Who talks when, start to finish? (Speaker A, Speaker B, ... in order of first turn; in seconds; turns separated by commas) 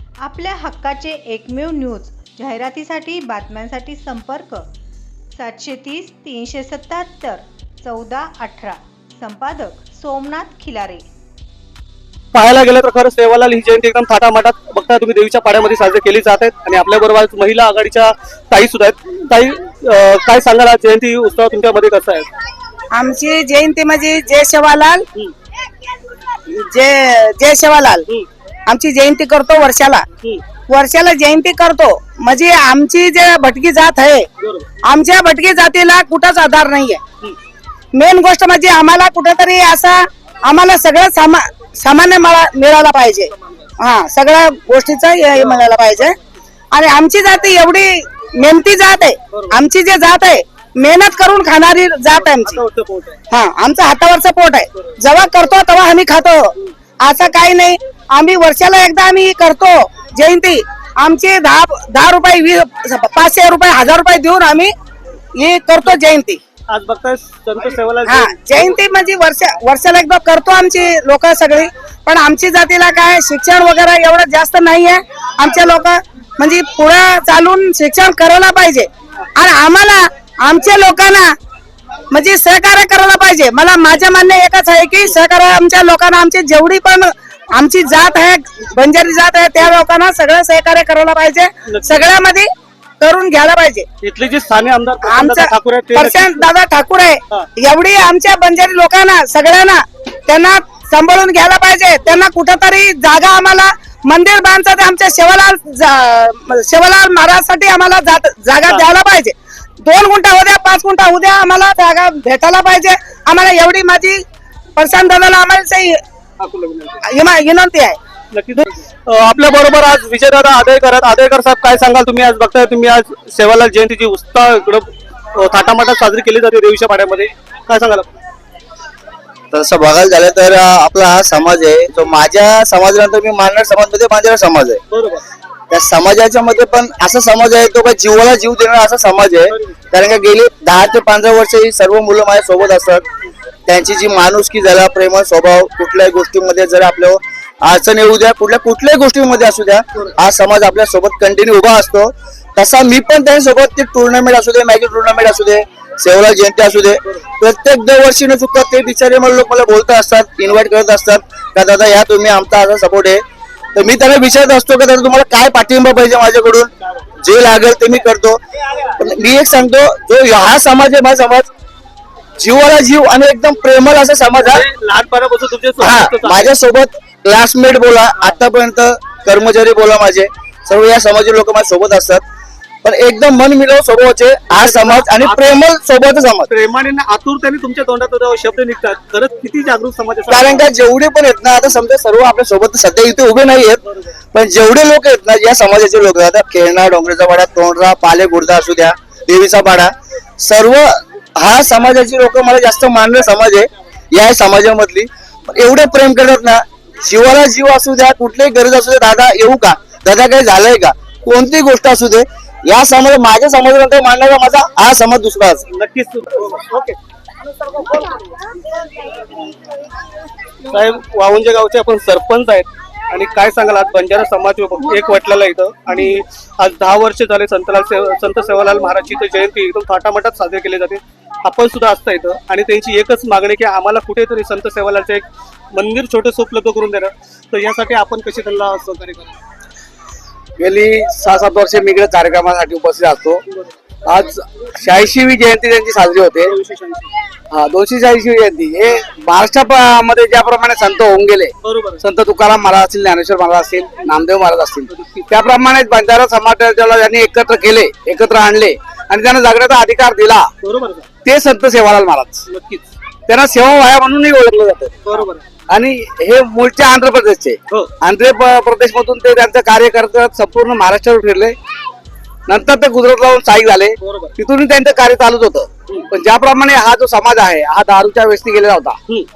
Speaker A: 0.2-4.7, Speaker A: 5.4-11.0, Speaker B: 12.3-22.3, Speaker C: 22.9-25.0, Speaker C: 26.5-28.1, Speaker C: 28.7-30.0, Speaker C: 30.6-34.3, Speaker B: 34.4-34.7, Speaker C: 34.8-37.0, Speaker C: 37.9-46.1, Speaker B: 45.4-45.6, Speaker C: 46.7-52.6, Speaker B: 52.1-53.2, Speaker C: 53.3-64.7, Speaker C: 65.4-66.4, Speaker B: 66.7-68.7, Speaker C: 68.0-81.3, Speaker C: 82.1-92.5, Speaker B: 91.7-92.0, Speaker C: 93.0-93.9, Speaker B: 94.0-96.5, Speaker C: 95.0-114.2, Speaker C: 114.8-116.0, Speaker B: 116.4-117.0, Speaker C: 117.0-118.0, Speaker B: 118.3-128.2, Speaker D: 129.5-134.8, Speaker B: 134.9-135.2, Speaker D: 135.7-143.0, Speaker D: 143.7-163.2, Speaker D: 163.7-166.7, Speaker D: 167.2-168.4, Speaker D: 168.9-171.5, Speaker D: 172.4-174.6, Speaker B: 174.4-176.5, Speaker D: 175.8-182.2, Speaker D: 182.8-186.5, Speaker B: 184.5-185.6, Speaker B: 186.5-190.6, Speaker D: 190.3-193.8, Speaker D: 194.3-215.6, Speaker B: 215.7-216.9, Speaker B: 217.8-218.1, Speaker B: 220.7-239.4, Speaker E: 240.6-243.4, Speaker E: 244.1-246.5, Speaker B: 246.5-247.1, Speaker E: 247.5-260.5, Speaker B: 251.6-252.0, Speaker B: 254.9-255.2, Speaker B: 260.6-261.0, Speaker E: 261.2-262.4, Speaker B: 262.5-262.9, Speaker E: 263.3-264.9, Speaker B: 265.1-265.5, Speaker E: 265.7-271.6, Speaker E: 272.5-279.0, Speaker B: 274.0-274.3